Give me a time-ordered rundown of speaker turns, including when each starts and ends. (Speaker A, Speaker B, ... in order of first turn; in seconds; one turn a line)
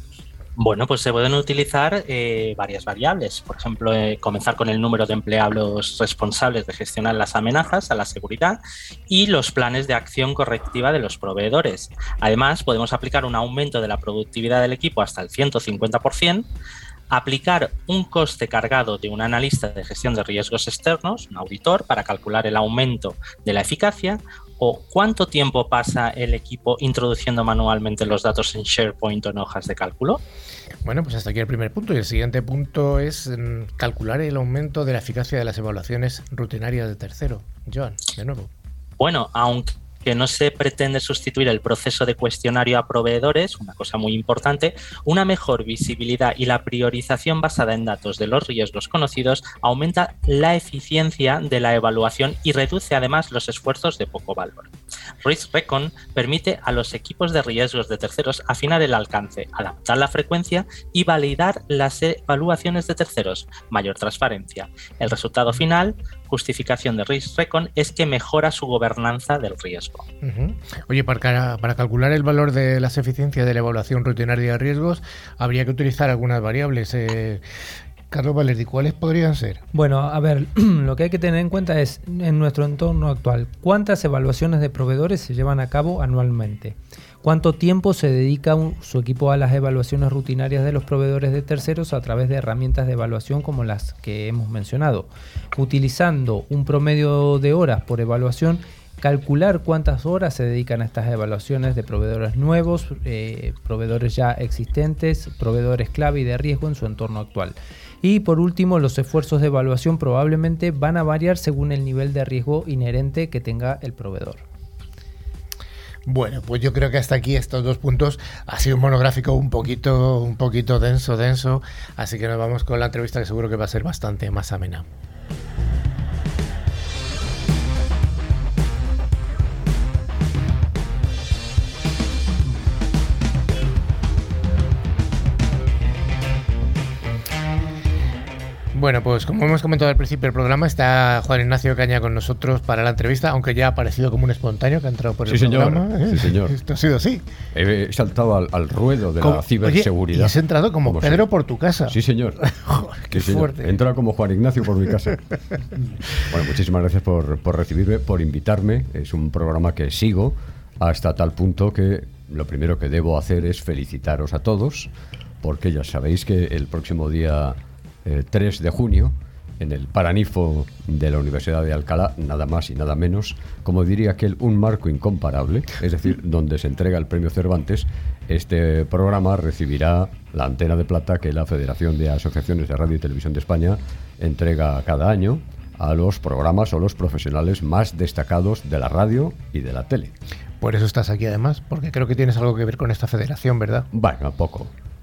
Speaker A: 0.6-16.5
Speaker A: 17.1-30.2
Speaker B: 30.9-38.5
Speaker A: 39.0-54.7
Speaker A: 55.2-70.1
Speaker B: 70.2-77.4
Speaker B: 78.1-79.6
Speaker C: 79.7-114.4
Speaker B: 116.1-124.9
Speaker B: 138.7-147.3
Speaker D: 145.3-146.6
Speaker D: 147.5-151.3
Speaker B: 149.2-153.8
Speaker D: 151.9-152.5
Speaker D: 153.1-155.2
Speaker D: 156.2-164.9
Speaker D: 165.4-190.1
Speaker B: 190.6-193.9
Speaker D: 193.9-194.7